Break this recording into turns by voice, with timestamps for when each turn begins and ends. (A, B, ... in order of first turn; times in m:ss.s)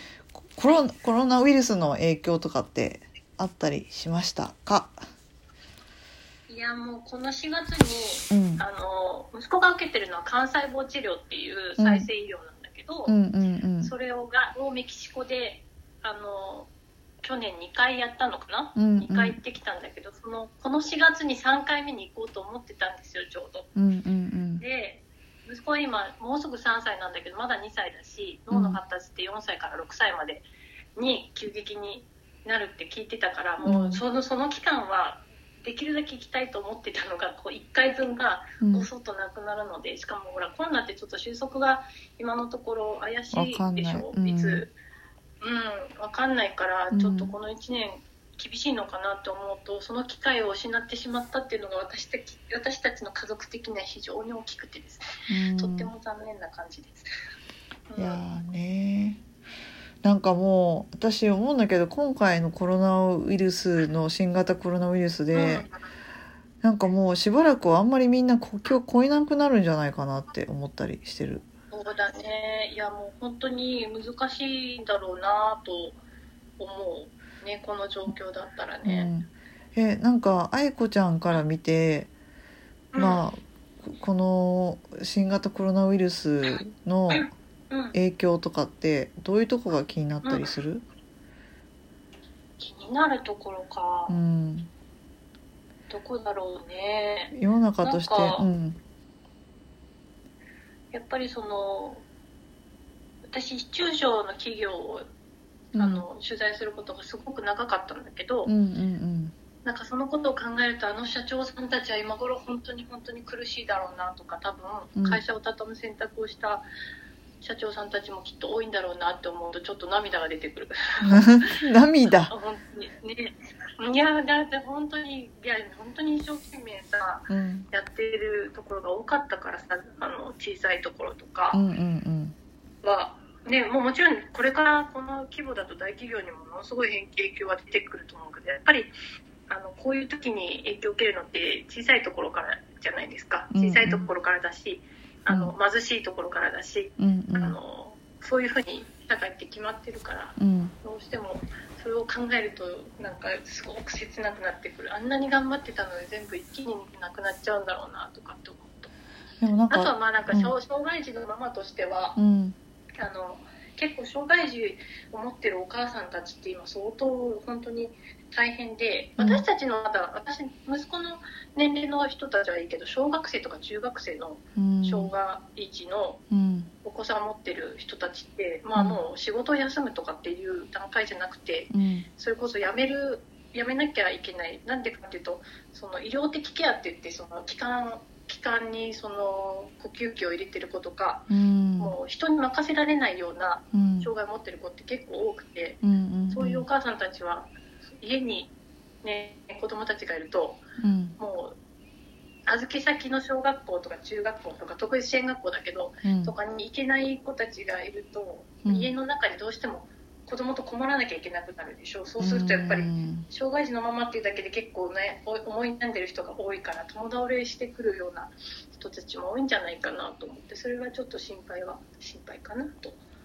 0:00.3-0:05.0 A
0:06.5-0:13.2 B
0:08.3-0:08.6 A
0:11.8-0:12.1 A
0:13.0-0:13.9 A
0:13.8-0:16.7 B
0:17.2-0:23.7 B
0:18.8-0:19.4 A
0:23.8-0:24.6 A
0:24.6-0:44.7 B
0:28.5-0:28.8 A
0:33.6-0:34.0 A
0:38.6-0:38.9 A
0:43.3-0:44.6 A
0:45.4-0:57.1 B
0:46.9-0:47.3 A
0:55.3-0:55.9 A
0:57.9-0:58.2 B
0:58.0-0:59.2 A
1:00.0-1:05.6 A
1:05.3-1:05.7 B
1:06.6-1:11.4 A
1:11.7-1:16.0 B
1:16.6-1:19.1 B
1:18.8-1:22.1 A
1:22.9-1:23.2 B
1:23.0-1:27.3 A
1:27.1-1:28.0 B
1:27.9-1:30.8 A
1:30.2-1:30.5 B
1:32.6-1:34.2 B
1:34.1-1:34.7 A
1:35.9-1:38.4 B
1:37.3-1:38.8 A
1:40.9-1:42.0 B
1:43.3-1:45.0 B
1:45.7-1:46.0 A
1:45.8-1:48.5 B
1:48.4-1:49.3 A
1:49.6-1:56.6 B
1:55.0-1:55.2 A
1:57.4-2:01.5 B
2:01.0-2:02.3 A
2:02.3-2:11.6 B
2:07.3-2:07.7 A
2:11.5-2:12.3 A
2:12.8-2:18.9 B
2:19.5-2:38.9 B
2:23.5-2:24.1 A
2:27.0-2:27.6 A
2:30.4-2:30.7 A
2:39.4-2:40.5 A
2:39.7-2:42.2 B
2:42.2-2:42.6 A
2:43.0-2:56.2 B
2:49.2-2:49.4 A
2:54.6-2:55.1 A
2:56.3-2:56.7 A
2:56.8-3:18.5 B
2:58.7-2:59.0 A
3:01.7-3:02.0 A
3:11.3-3:12.0 A
3:13.7-3:14.1 A
3:15.8-3:16.6 A
3:19.0-3:20.6 B
3:20.8-3:21.1 A
3:21.2-3:21.6 B
3:22.5-3:43.0 B
3:26.0-3:26.3 A
3:28.6-3:28.9 A
3:32.2-3:33.2 A